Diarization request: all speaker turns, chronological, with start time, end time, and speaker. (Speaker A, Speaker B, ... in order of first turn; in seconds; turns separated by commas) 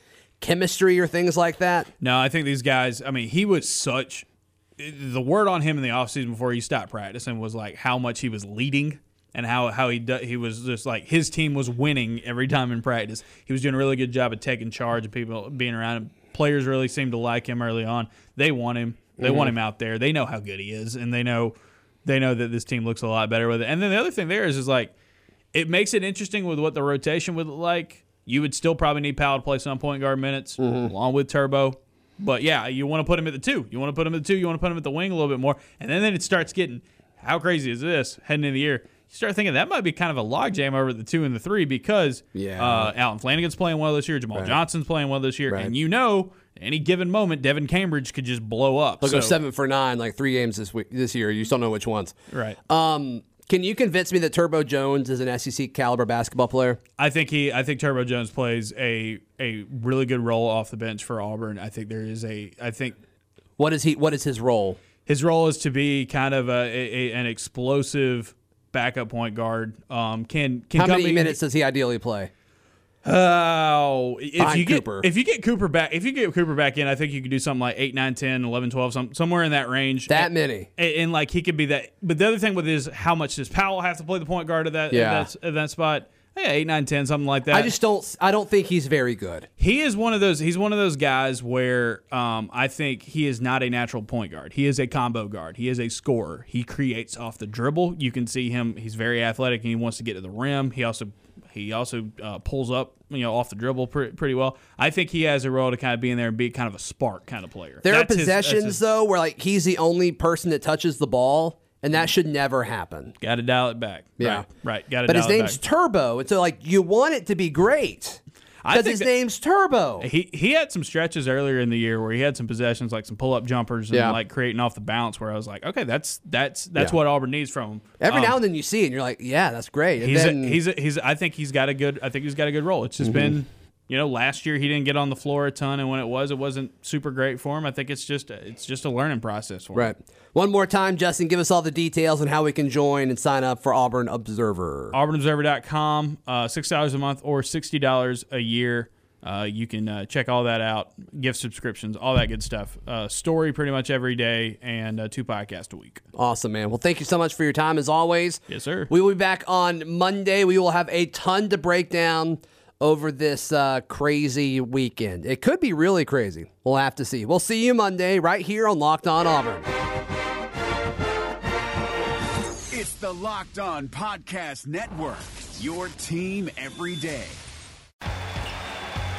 Speaker A: 0.4-1.9, Speaker B: 2.0-4.2, Speaker B: 4.8-24.9, Speaker A: 19.2-19.5, Speaker B: 25.5-49.4, Speaker A: 30.6-30.9, Speaker A: 42.3-42.9, Speaker A: 49.0-52.1, Speaker B: 52.3-52.6, Speaker A: 52.7-56.8, Speaker B: 57.0-63.0, Speaker A: 63.6-64.8, Speaker B: 65.0-71.4, Speaker A: 70.7-72.3, Speaker B: 73.0-87.7, Speaker A: 74.4-75.1, Speaker A: 80.1-80.7, Speaker A: 84.9-85.3, Speaker A: 87.5-89.5, Speaker B: 89.6-108.8, Speaker A: 107.8-113.1, Speaker B: 113.2-115.6, Speaker A: 114.2-114.5, Speaker A: 115.0-118.2, Speaker B: 118.6-119.1, Speaker A: 118.7-120.1, Speaker B: 120.0-128.4, Speaker A: 123.9-124.2, Speaker A: 128.0-130.6, Speaker B: 130.0-139.9, Speaker A: 133.0-133.3, Speaker A: 139.7-144.9, Speaker B: 144.9-156.0, Speaker A: 156.2-169.7, Speaker B: 158.5-158.9, Speaker C: 172.7-177.4